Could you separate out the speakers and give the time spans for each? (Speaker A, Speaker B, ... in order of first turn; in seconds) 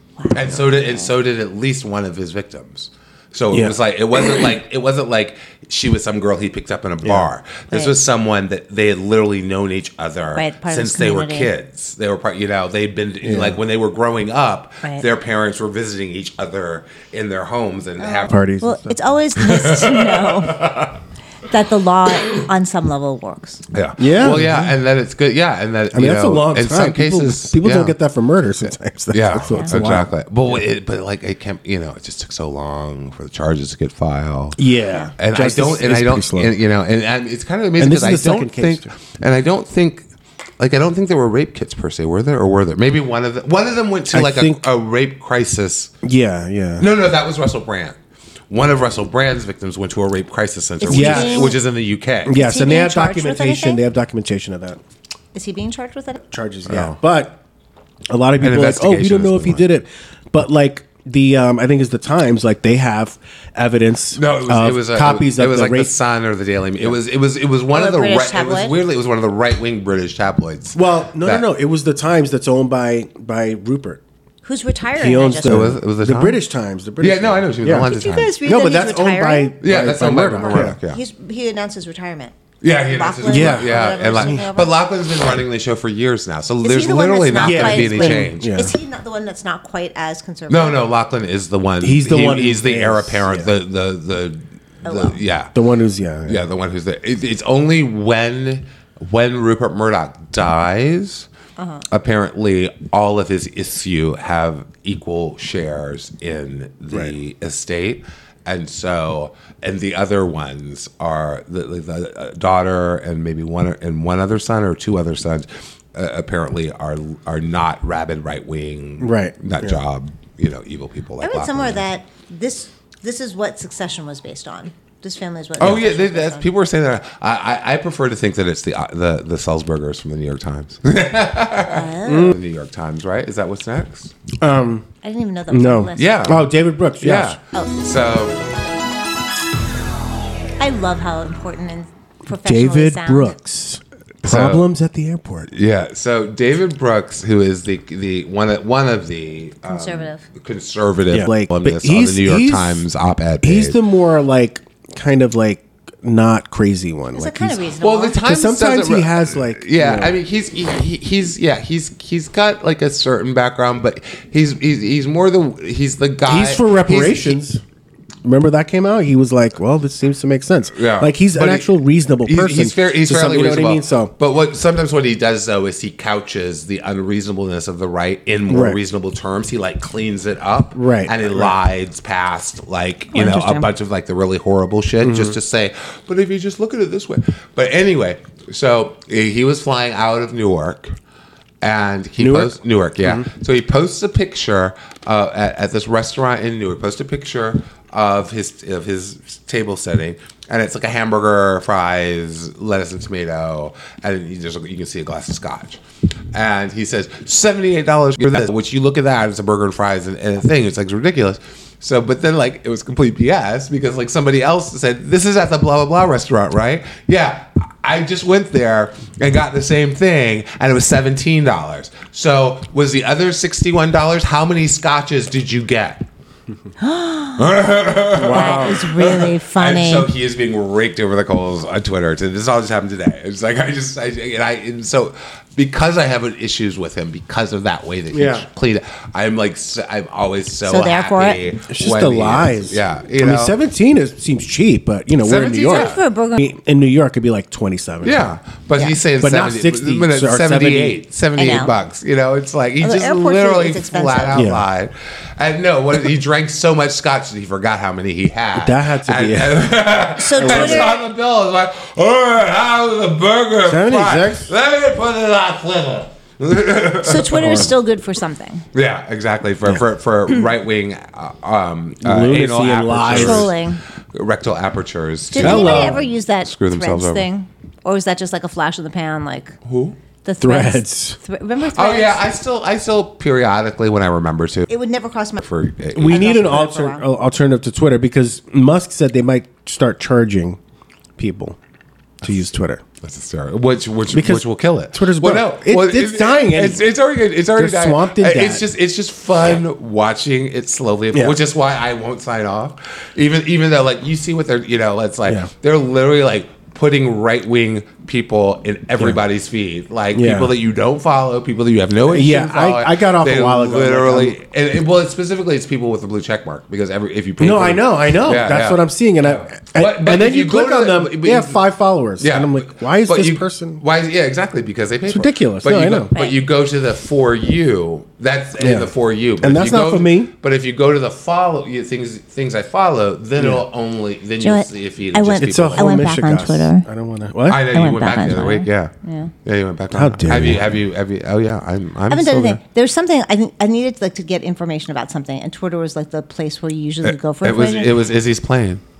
Speaker A: 0.2-1.0, 10.3-11.5, 18.0-20.8, 21.5-23.6, 29.5-29.7, 50.8-51.6, 52.3-53.8, 55.3-56.2, 67.7-68.7, 74.4-75.7, 77.9-79.6, 80.3-84.8, 86.6-90.8, 94.8-95.2, 101.6-101.8, 121.2-126.5, 131.6-132.3, 135.0-136.3, 140.6-143.3, 149.7-150.2, 157.1-158.2, 183.1-183.7, 226.8-227.5, 228.3-230.1, 240.6-241.4, 245.3-246.5, 251.4-251.7, 252.8-254.4, 260.2-261.0, 267.0-268.6, 273.1-273.8, 275.3-279.6, 280.2-282.3, 284.7-285.4, 286.0-287.1, 326.1-326.4, 334.4-336.9, 337.7-339.3, 342.1-347.9
Speaker B: 0.3-18.4, 19.4-21.0, 23.7-27.9, 29.1-34.6, 35.2-40.1, 40.6-45.9, 46.8-48.0, 48.5-52.4, 56.6-57.0, 58.4-59.6, 64.1-71.4, 75.4-76.4, 77.0-78.3, 79.6-81.0, 82.6-88.5, 90.5-95.5, 96.3-101.3, 101.9-121.8, 125.6-134.1, 136.0-136.5, 137.0-138.4, 144.2-144.6, 145.5-153.8, 157.8-167.4, 170.7-171.7, 172.2-190.9, 191.6-205.8, 206.3-226.0, 227.4-243.5, 245.2-246.0, 248.0-267.7, 268.7-273.6, 274.1-277.2, 279.6-280.0, 281.6-284.7, 285.4-286.6, 293.0-321.6, 322.2-336.0, 337.5-338.9, 339.4-342.6, 347.0-348.8
Speaker C: 7.0-7.3, 13.2-13.6, 18.3-19.0, 24.0-24.7, 25.9-30.6, 34.6-36.5, 37.8-38.9, 44.1-44.6, 46.0-46.9, 50.9-51.5, 52.2-54.8, 56.3-57.4, 58.1-65.9, 70.7-74.0, 75.0-77.9, 78.4-80.8, 83.2-84.4, 87.4-88.7, 91.8-93.5, 95.5-96.4, 119.0-119.8, 132.1-132.4, 134.4-134.8, 135.5-137.4, 142.4-145.5, 151.1-152.8, 153.4-157.6, 158.2-160.1, 166.3-167.6, 168.2-174.1, 178.5-178.8, 180.7-181.5, 185.0-185.4, 192.2-193.3, 228.1-228.9, 238.1-238.4, 241.7-248.3, 249.2-251.0, 254.3-254.6, 258.5-259.6, 260.4-260.9, 263.6-264.5, 267.4-267.7, 272.0-273.5, 275.4-276.0, 280.4-281.2, 285.9-290.6, 291.2-291.6, 292.2-292.8, 294.1-296.9, 297.6-298.6, 310.1-310.5, 312.1-314.4, 317.4-323.8, 325.1-326.1, 328.6-330.3, 333.4-333.6, 335.4-337.7, 339.9-340.7